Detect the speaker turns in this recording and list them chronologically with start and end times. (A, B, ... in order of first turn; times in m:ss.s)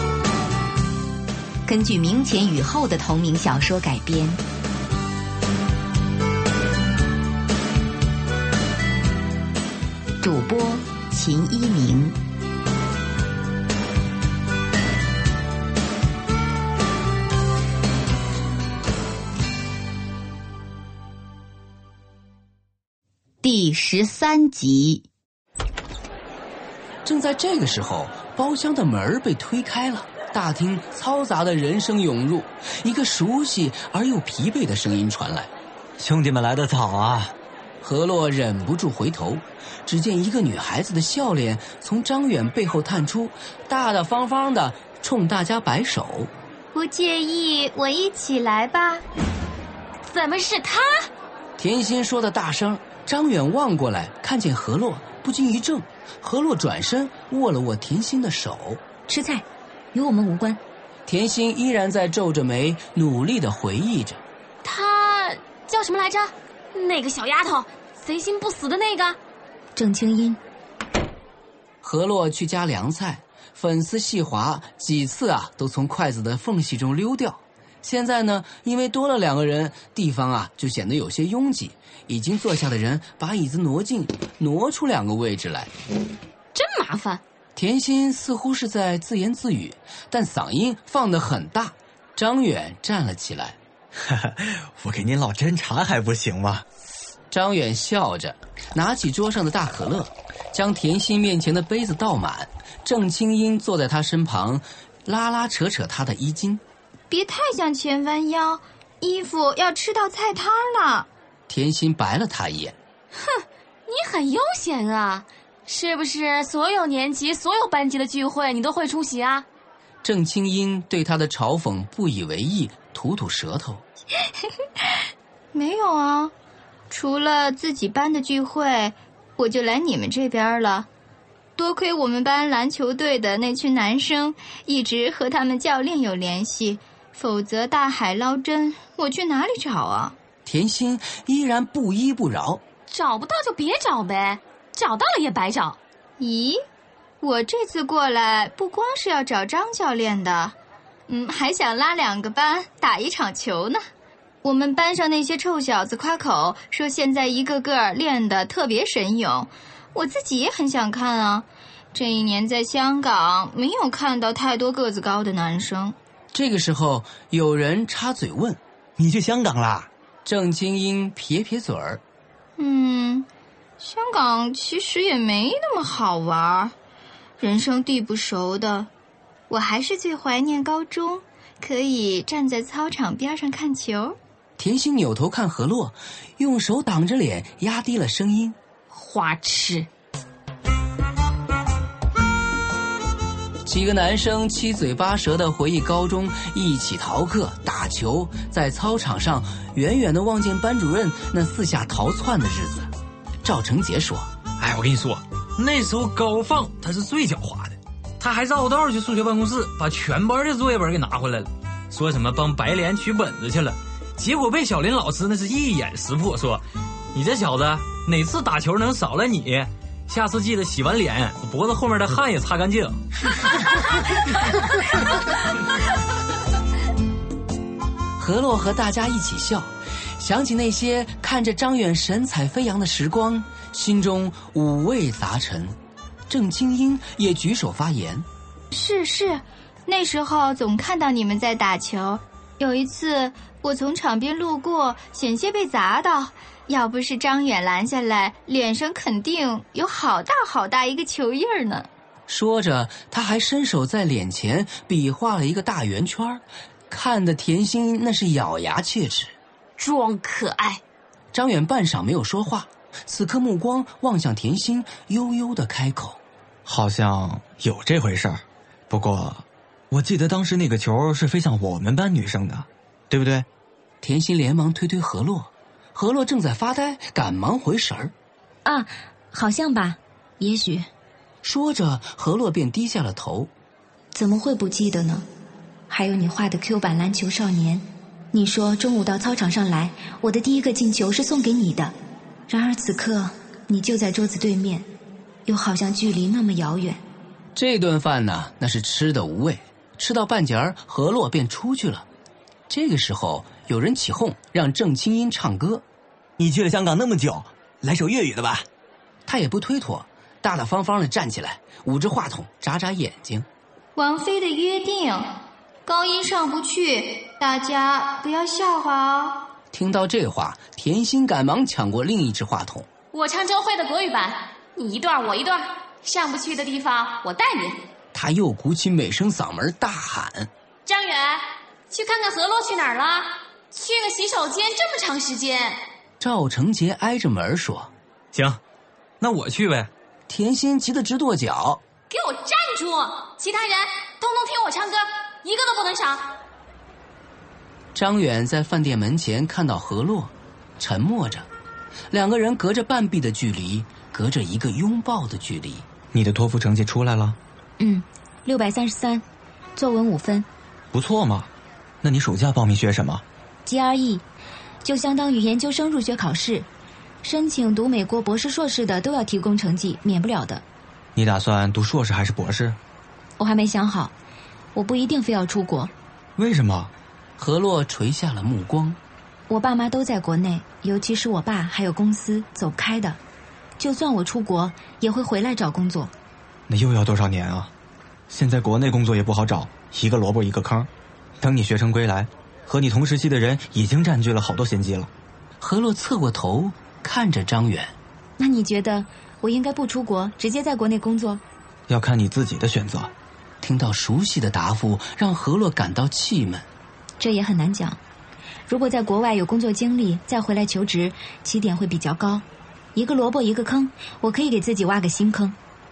0:01.6-0:04.4 A
0:10.2-0:12.2 A
0:23.4-0:25.0 A
0:27.0-0:35.5 B
0:36.0-0:37.3 C
0:37.8-0:46.3 B
0:46.7-0:49.0 D
0:50.0-0:51.1 E
0:51.6-0:58.8 B
0:59.1-1:00.6 F
1:01.1-1:04.2 B
1:04.6-1:09.2 E
1:09.8-1:10.4 F
1:11.8-1:25.7 B
1:26.5-1:27.2 E
1:27.6-1:33.6 B
1:34.0-1:36.6 C
1:37.3-1:46.6 B
1:47.1-1:51.1 D
1:51.5-1:52.8 B
1:53.2-1:59.4 E
2:00.0-2:03.8 B
2:05.5-2:06.3 D
2:06.9-2:10.9 D
2:11.6-2:20.2 D
2:20.4-2:22.6 B
2:22.9-2:25.8 E
2:26.2-2:26.6 D
2:27.2-2:30.6 D
2:31.1-2:33.8 D
2:34.4-2:46.0 D
2:46.3-2:48.6 B
2:49.0-2:49.9 C
2:50.2-2:52.0 B
2:52.6-2:53.3 D
2:53.8-2:56.7 D
2:57.4-2:58.9 D
2:59.5-3:04.2 D
3:04.6-3:08.6 B
3:08.9-3:09.9 E
3:13.6-3:22.9 B
3:23.4-3:24.3 B
3:24.6-3:43.0 G
3:48.2-3:55.8 B
3:56.3-3:58.2 B
3:58.7-4:11.9 D
4:12.3-4:19.3 B
4:19.8-4:20.8 E
4:21.3-4:26.2 B
4:26.6-4:33.5 C
4:34.0-4:38.1 B
4:38.6-4:40.9 F
4:41.4-4:43.5 B
4:44.1-4:45.2 F
4:45.9-4:51.9 F
4:52.5-4:54.8 F
4:55.4-4:57.0 F
4:57.5-5:02.0 B
5:02.7-5:05.8 B
5:06.4-5:08.6 C
5:09.2-5:13.5 B
5:14.0-5:15.3 D
5:15.8-5:19.5 D
5:19.7-5:22.9 B
5:23.1-5:27.8 E
5:28.1-5:30.5 B
5:30.8-5:35.8 E
5:36.2-5:37.9 B
5:38.3-5:38.6 G
5:39.2-5:39.9 G
5:40.3-5:41.8 B
5:42.1-5:46.3 E
5:47.9-5:51.5 B
5:52.1-5:55.8 B
5:56.1-5:57.4 C
5:57.8-5:59.2 F
5:59.8-6:00.5 F
6:00.9-6:01.5 C
6:02.0-6:03.2 C
6:03.6-6:04.2 F
6:04.8-6:06.7 F
6:07.2-6:10.6 F
6:11.1-6:12.8 C
6:13.4-6:14.1 F
6:14.7-6:15.9 F
6:16.4-6:16.9 C
6:17.4-6:19.0 B
6:19.5-6:23.2 F
6:23.8-6:26.1 F
6:26.7-6:27.7 C
6:28.3-6:30.9 C
6:31.4-6:35.1 C
6:35.6-6:37.9 B
6:38.4-6:41.4 F
6:41.9-6:43.1 C
6:43.6-6:46.7 B
6:47.2-6:48.0 F
6:48.7-6:52.4 F
6:52.9-6:55.6 F